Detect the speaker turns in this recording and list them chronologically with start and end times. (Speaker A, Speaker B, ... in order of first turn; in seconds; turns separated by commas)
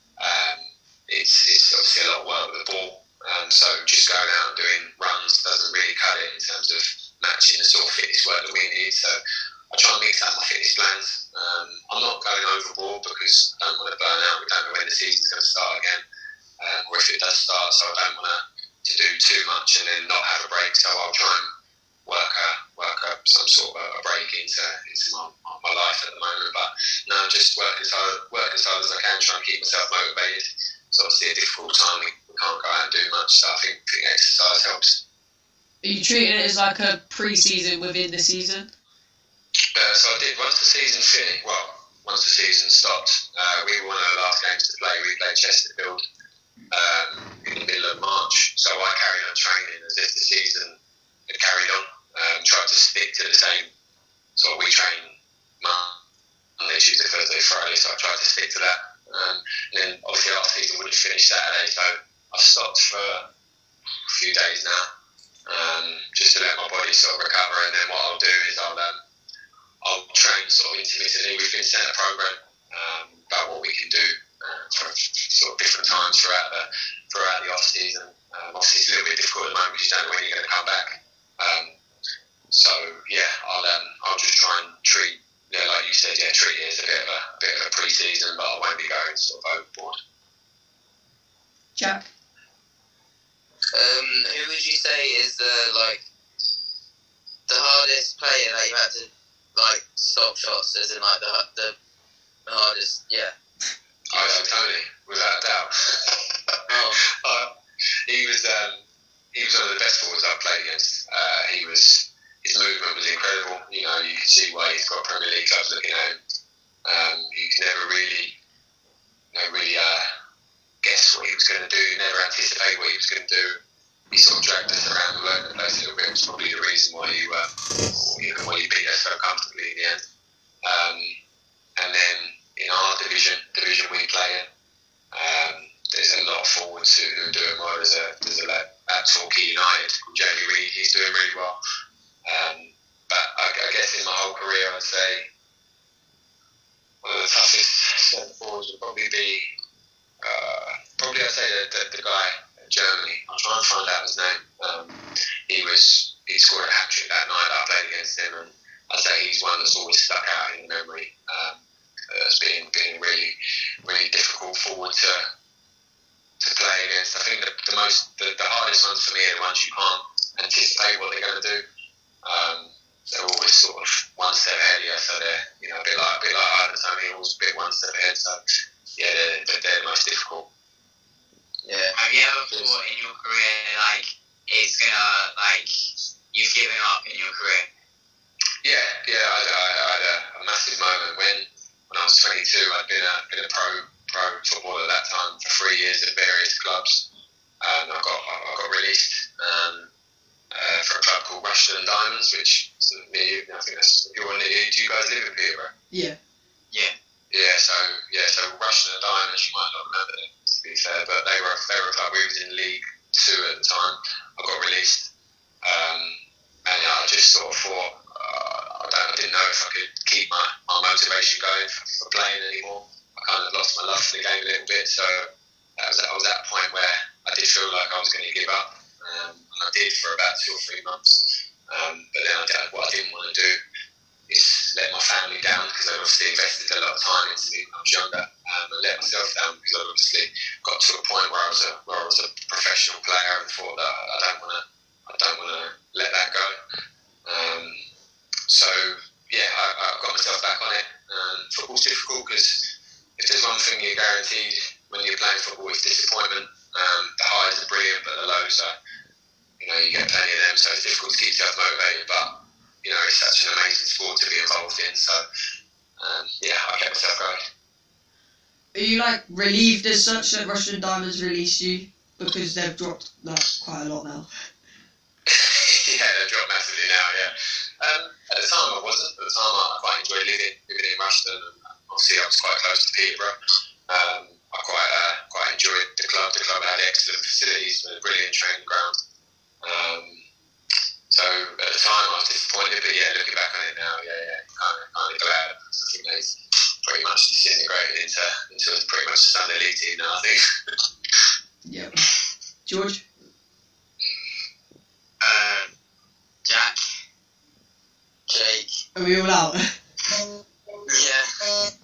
Speaker A: 0.2-9.2, Speaker A: 9.7-16.0, Speaker A: 16.6-21.5, Speaker A: 22.1-35.0, Speaker B: 35.8-38.7, Speaker A: 39.7-46.0, Speaker A: 46.7-50.8, Speaker A: 51.3-53.7, Speaker A: 54.4-56.0, Speaker A: 56.6-63.3, Speaker A: 64.1-64.9, Speaker A: 65.5-69.0, Speaker A: 69.8-81.7, Speaker A: 82.5-90.0, Speaker B: 91.8-92.1, Speaker C: 93.7-96.0, Speaker C: 97.5-101.8, Speaker C: 102.5-103.3, Speaker A: 104.1-106.4, Speaker C: 104.1-104.5, Speaker C: 106.7-107.0, Speaker A: 107.0-107.5, Speaker A: 108.1-108.8, Speaker A: 109.3-116.2, Speaker A: 116.8-118.4, Speaker A: 119.3-120.1, Speaker A: 120.8-130.0, Speaker A: 130.6-131.1, Speaker A: 131.8-134.5, Speaker A: 135.1-141.6, Speaker A: 142.2-145.3, Speaker A: 147.0-149.5, Speaker A: 150.2-161.6, Speaker A: 162.1-165.2, Speaker A: 166.4-171.6, Speaker A: 172.2-178.4, Speaker A: 179.0-180.5, Speaker C: 181.6-181.9, Speaker D: 181.9-185.7, Speaker D: 186.3-187.7, Speaker A: 188.6-197.1, Speaker A: 197.6-199.9, Speaker A: 200.5-205.7, Speaker B: 205.9-206.2, Speaker A: 207.3-215.1, Speaker A: 215.6-233.6, Speaker A: 234.3-246.6, Speaker A: 247.2-247.8, Speaker A: 248.5-258.8, Speaker A: 259.6-265.2, Speaker A: 266.0-267.5, Speaker B: 268.7-274.3, Speaker A: 275.3-283.4, Speaker A: 283.9-289.0, Speaker A: 289.6-290.2, Speaker A: 291.1-300.4, Speaker B: 301.6-302.0, Speaker B: 302.6-303.0, Speaker D: 305.2-305.7, Speaker D: 306.4-306.8, Speaker C: 308.3-308.8, Speaker B: 308.9-309.7, Speaker C: 310.9-311.7